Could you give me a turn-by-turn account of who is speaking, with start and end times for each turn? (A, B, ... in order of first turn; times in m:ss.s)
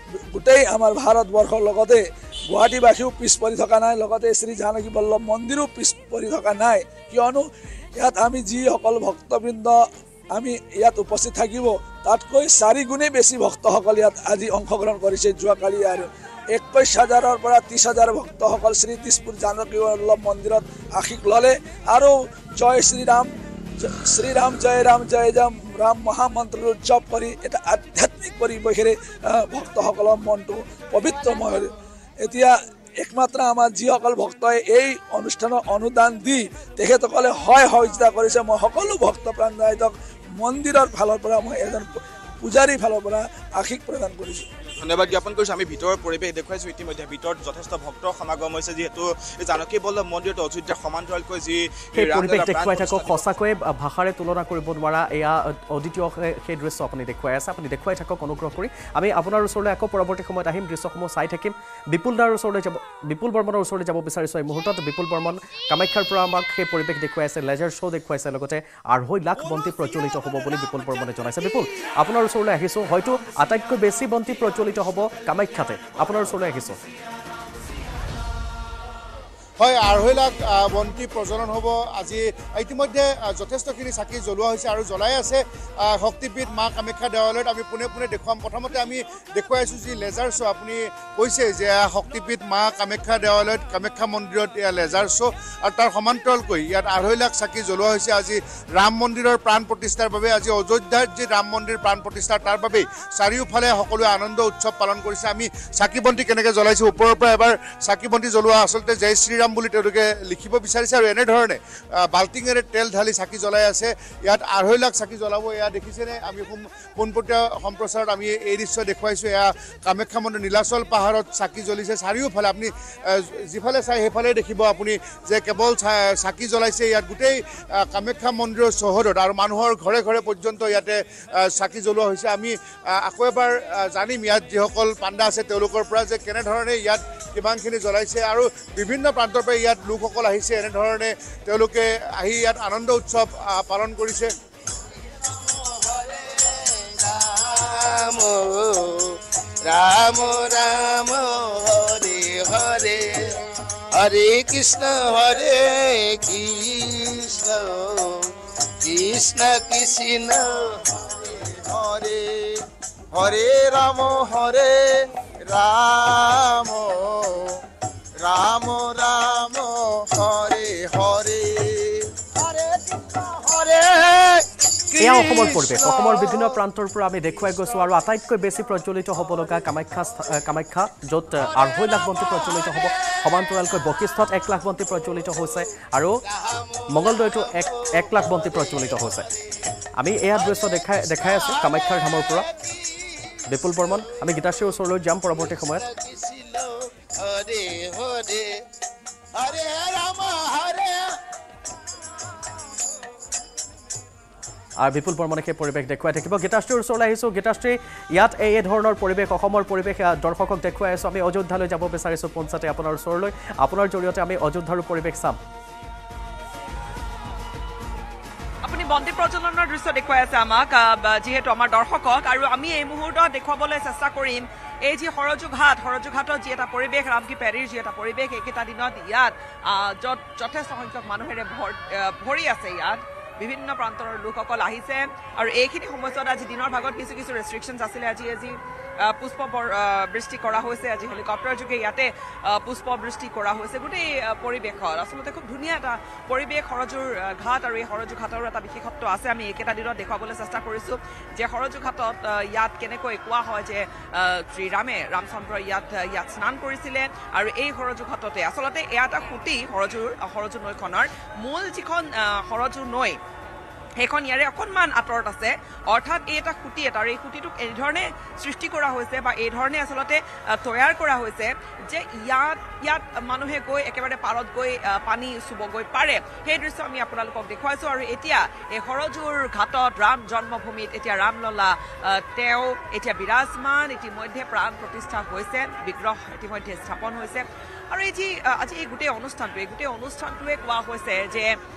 0:00.3-0:07.4 A
0:08.0-0:09.8 A
0:10.4-0:23.3 A
0:23.8-0:31.7 A
0:32.2-0:41.9 A
0:42.4-0:44.5 A
0:44.8-0:53.3 B
0:51.9-1:16.8 C
1:19.6-2:24.3 D
2:25.2-2:33.4 E
2:34.0-2:38.3 E
2:38.8-2:42.6 E
2:43.1-2:47.5 E
2:48.2-2:56.6 E
2:55.0-3:06.2 C
3:01.6-3:03.2 E
3:06.3-3:09.5 E
3:06.9-3:09.3 C
3:10.0-3:12.5 C
3:10.3-3:14.5 E
3:13.5-3:15.8 C
3:15.3-3:18.6 E
3:19.4-3:21.2 E
3:24.8-3:35.4 C
3:38.6-4:23.2 F
4:24.0-4:51.5 F